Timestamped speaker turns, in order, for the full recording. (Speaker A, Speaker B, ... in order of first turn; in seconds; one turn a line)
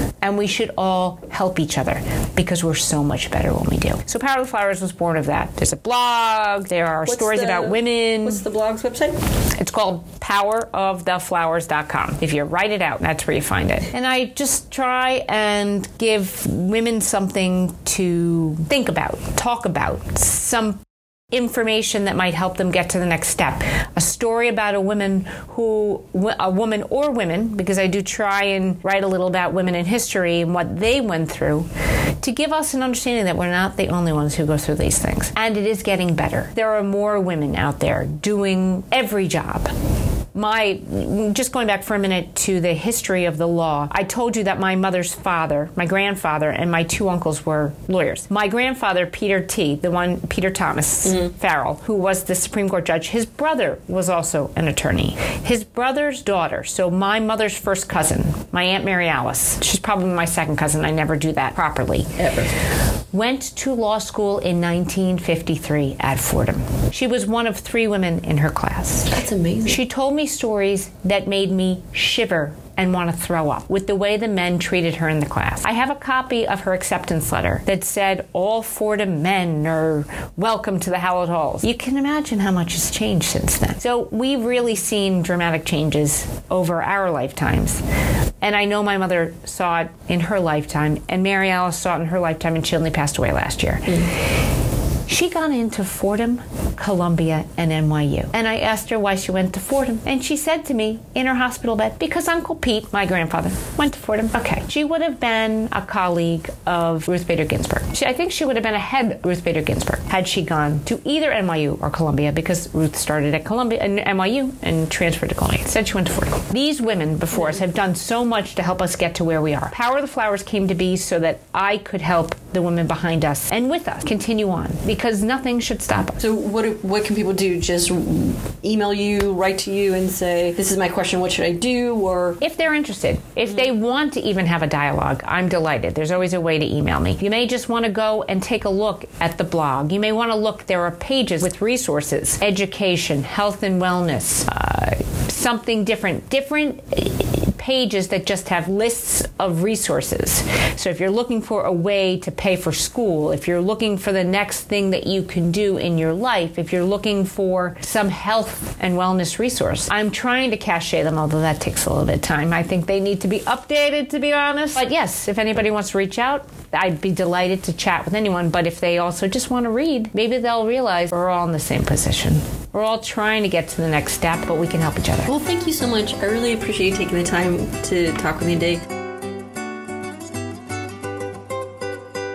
Speaker A: 0.2-8.4
Speaker B: 7.0-9.2
Speaker A: 9.6-31.7
Speaker A: 32.2-39.7
Speaker A: 40.3-62.2
Speaker B: 62.2-62.5
Speaker A: 63.1-69.2
Speaker B: 69.1-69.8
Speaker A: 69.7-87.8
Speaker A: 88.4-94.2
Speaker A: 95.1-126.2
Speaker B: 126.2-132.4
Speaker A: 132.4-175.3
Speaker B: 175.3-178.8